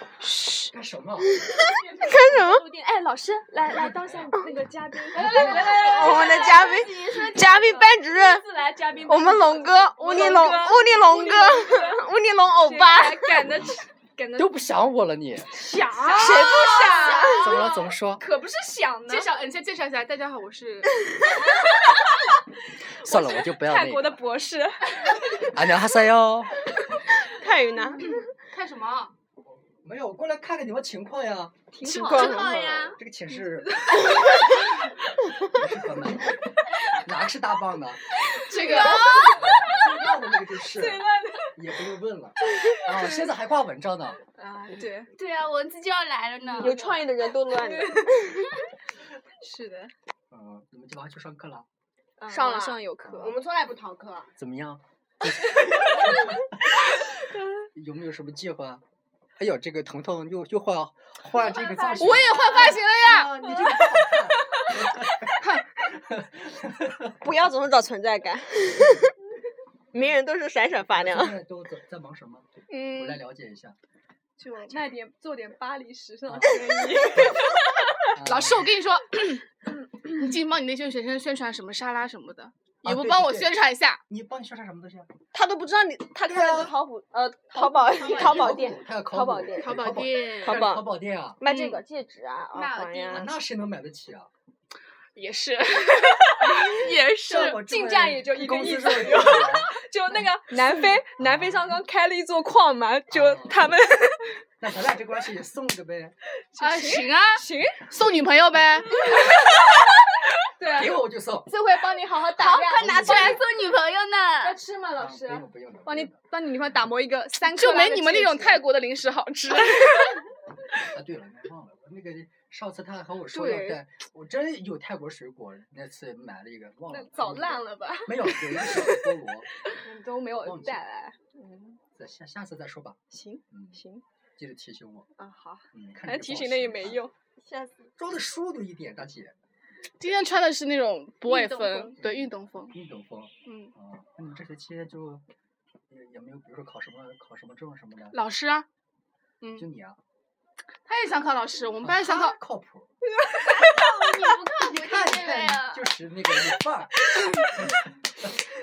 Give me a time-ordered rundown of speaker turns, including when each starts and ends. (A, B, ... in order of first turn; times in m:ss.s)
0:00.4-0:01.5 A
0:01.4-0:02.7 B
0:01.5-0:12.0 C
0:03.6-0:04.4 A
0:05.2-0:06.4 D
0:05.2-0:05.9 A
0:05.4-0:07.8 E
0:05.6-0:08.4 B
0:08.9-0:09.4 A
0:09.1-0:13.6 B
0:10.1-0:10.5 E
0:12.6-0:14.5 C
0:14.4-0:15.6 A
0:15.5-0:19.3 C
0:16.0-0:16.7 D
0:16.2-0:17.6 B
0:16.3-0:17.1 E
0:17.3-0:18.3 A
0:19.1-0:21.1 D
0:21.3-0:22.4 C
0:23.0-0:25.2 C
0:23.0-0:24.2 A
0:25.2-0:26.7 A
0:27.2-0:28.2 B
0:28.5-0:29.1 D
0:29.5-0:31.6 A
0:31.7-0:32.8 C
0:31.8-0:33.0 B
0:32.1-0:33.0 E
0:32.4-0:34.3 A
0:35.4-0:38.2 A
0:38.4-0:39.8 E
0:38.5-0:40.0 C
0:38.5-0:39.5 D
0:39.3-0:44.2 A
0:40.7-0:41.5 C
0:44.4-0:45.1 C
0:45.2-0:46.9 E
0:46.5-0:47.0 C
0:46.6-0:48.5 B
0:47.5-0:48.2 C
0:49.4-0:49.9 C
0:50.3-0:51.7 A
0:52.2-0:53.4 C
0:52.3-0:54.3 B
0:54.4-0:56.5 A
0:57.7-0:58.8 A
0:59.4-1:07.2 A
1:01.5-1:02.2 C
1:01.9-1:02.3 E
1:02.0-1:04.8 D
1:05.3-1:05.7 D
1:07.2-1:09.1 B
1:09.9-1:11.3 B
1:10.9-1:13.8 A
1:12.7-1:13.2 B
1:14.4-1:17.8 C
1:16.3-1:17.5 A
1:18.0-1:19.4 D
1:18.1-1:18.8 A
1:20.0-1:24.0 D
1:22.8-1:25.2 A
1:25.3-1:29.7 B
1:26.2-1:26.8 A
1:27.5-1:28.6 C
1:28.0-1:31.4 A
1:29.6-1:30.8 D
1:30.4-1:30.8 B
1:31.4-1:33.3 B
1:31.4-1:31.8 D
1:32.5-1:33.2 E
1:33.1-1:34.3 A
1:35.2-1:37.6 D
1:36.5-1:39.8 A
1:37.3-1:44.3 C
1:41.2-1:41.8 A
1:43.1-1:43.6 A
1:44.6-1:46.2 A
1:46.5-1:47.8 C
1:46.6-1:49.5 D
1:48.9-1:49.6 C
1:50.6-1:53.4 C
1:50.6-1:51.5 A
1:52.4-1:54.6 E
1:52.8-1:53.4 A
1:54.4-1:58.6 C
1:55.0-1:56.2 A
1:57.4-2:00.2 D
2:00.8-2:09.5 A
2:03.3-2:03.8 C
2:06.9-2:09.0 C
2:09.6-2:11.8 C
2:10.4-2:10.8 A
2:12.0-2:13.0 A
2:13.1-2:14.0 C
2:13.5-2:13.8 A
2:14.4-2:15.1 A
2:15.2-2:17.1 C
2:15.7-2:17.1 A
2:17.5-2:17.9 B
2:18.0-2:19.4 A
2:20.0-2:22.8 D
2:21.3-2:21.9 E
2:22.0-2:25.2 A
2:23.5-2:23.7 D
2:25.9-2:28.2 A
2:28.1-2:28.7 D
2:29.4-2:29.7 D
2:29.5-2:30.0 A
2:30.9-2:32.4 D
2:31.8-2:32.9 A
2:33.5-2:35.8 E
2:34.6-2:38.3 A